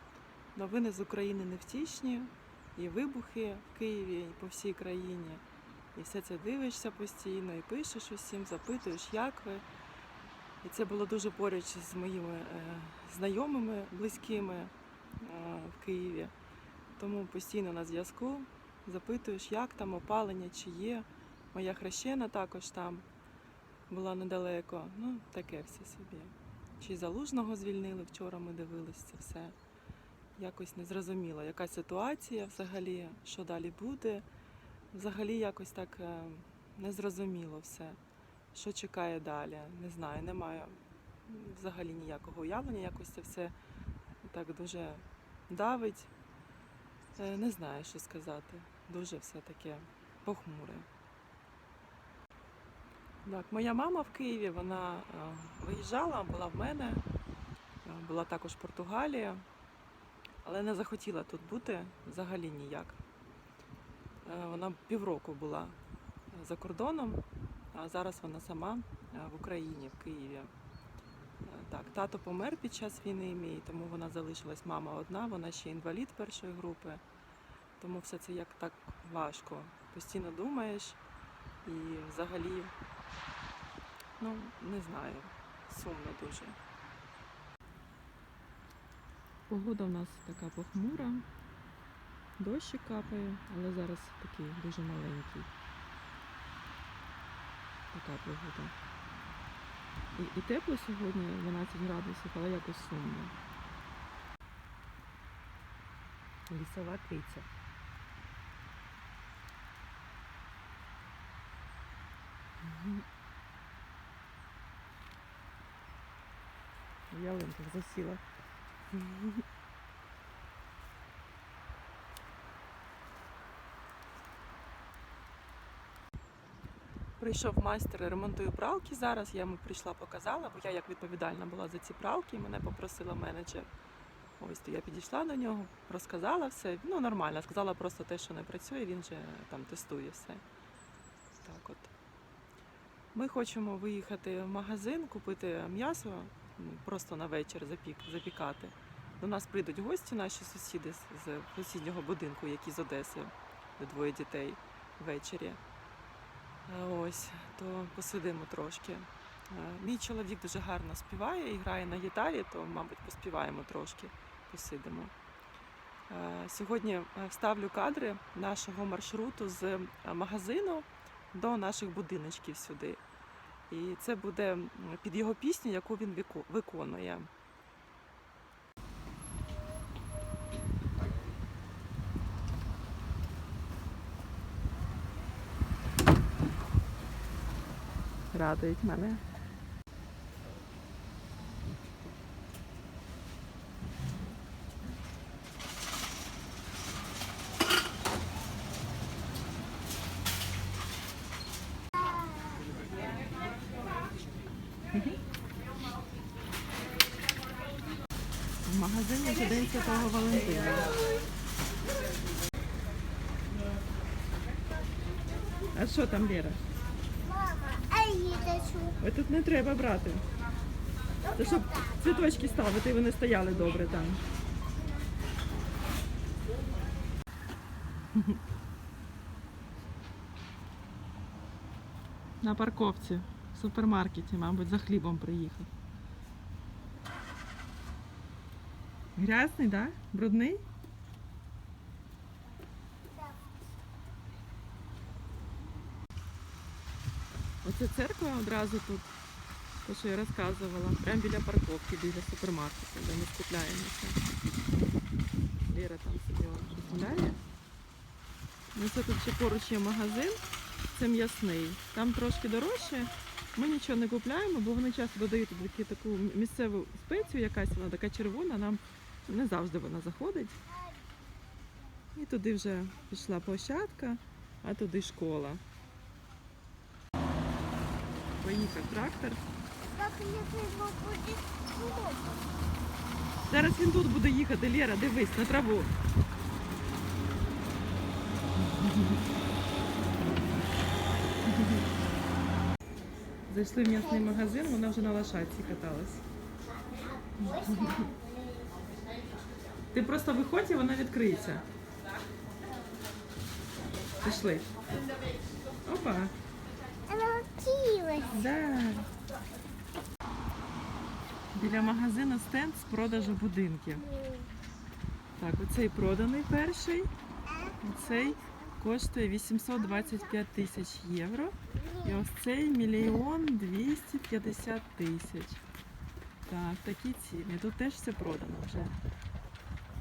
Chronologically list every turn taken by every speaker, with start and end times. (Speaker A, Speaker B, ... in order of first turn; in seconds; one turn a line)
Speaker A: 0.5-5.4
Speaker A: 5.9-9.6
Speaker A: 10.6-16.3
Speaker A: 17.0-23.1
Speaker A: 23.9-29.5
Speaker A: 30.4-34.2
Speaker A: 34.9-38.0
Speaker A: 38.5-40.7
Speaker A: 41.2-43.5
Speaker A: 44.2-46.1
Speaker A: 47.1-50.9
Speaker A: 53.2-57.0
Speaker A: 57.8-59.4
Speaker A: 60.4-63.0
Speaker A: 64.2-65.8
Speaker A: 66.3-67.2
Speaker A: 67.7-70.5
Speaker A: 71.4-77.0
Speaker A: 77.8-81.0
Speaker A: 81.6-82.7
Speaker A: 84.2-86.6
Speaker A: 89.5-91.2
Speaker A: 92.4-95.5
Speaker A: 97.9-98.7
Speaker A: 100.1-103.3
Speaker A: 106.5-107.5
Speaker A: 112.6-113.0
Speaker A: 117.1-118.2
Speaker A: 118.9-119.4
Speaker A: 127.2-133.7
Speaker A: 134.4-140.4
Speaker A: 141.4-141.9
Speaker A: 143.1-155.6
Speaker A: 156.7-165.1
Speaker A: 166.1-173.0
Speaker A: 173.7-177.3
Speaker A: 188.3-189.2
Speaker B: 202.3-202.6
Speaker A: 204.9-205.2
Speaker A: 208.6-211.2
Speaker A: 215.7-216.6
Speaker B: 217.2-219.0
Speaker A: 219.0-220.2
Speaker B: 221.2-222.0
Speaker A: 221.3-224.2
Speaker A: 232.4-235.7
Speaker A: 239.2-240.6
Speaker A: 247.6-249.1
Speaker A: 249.8-254.2
Speaker A: 255.7-257.4
Speaker A: 258.7-270.6
Speaker B: 270.7-271.6
Speaker A: 272.1-275.6
Speaker A: 278.4-279.4
Speaker B: 279.9-282.6
Speaker A: 283.5-285.9
Speaker A: 288.6-289.2
Speaker A: 291.5-291.8
Speaker A: 293.5-296.2
Speaker B: 297.1-298.7
Speaker A: 297.4-298.0
Speaker A: 299.9-301.6
Speaker A: 304.2-304.7
Speaker A: 305.8-306.3
Speaker B: 307.1-308.4
Speaker A: 308.3-309.1
Speaker A: 311.5-314.1
Speaker B: 314.0-314.5
Speaker A: 315.4-317.1
Speaker B: 317.5-318.4
Speaker A: 317.8-325.6
Speaker B: 321.7-322.2
Speaker A: 326.4-328.9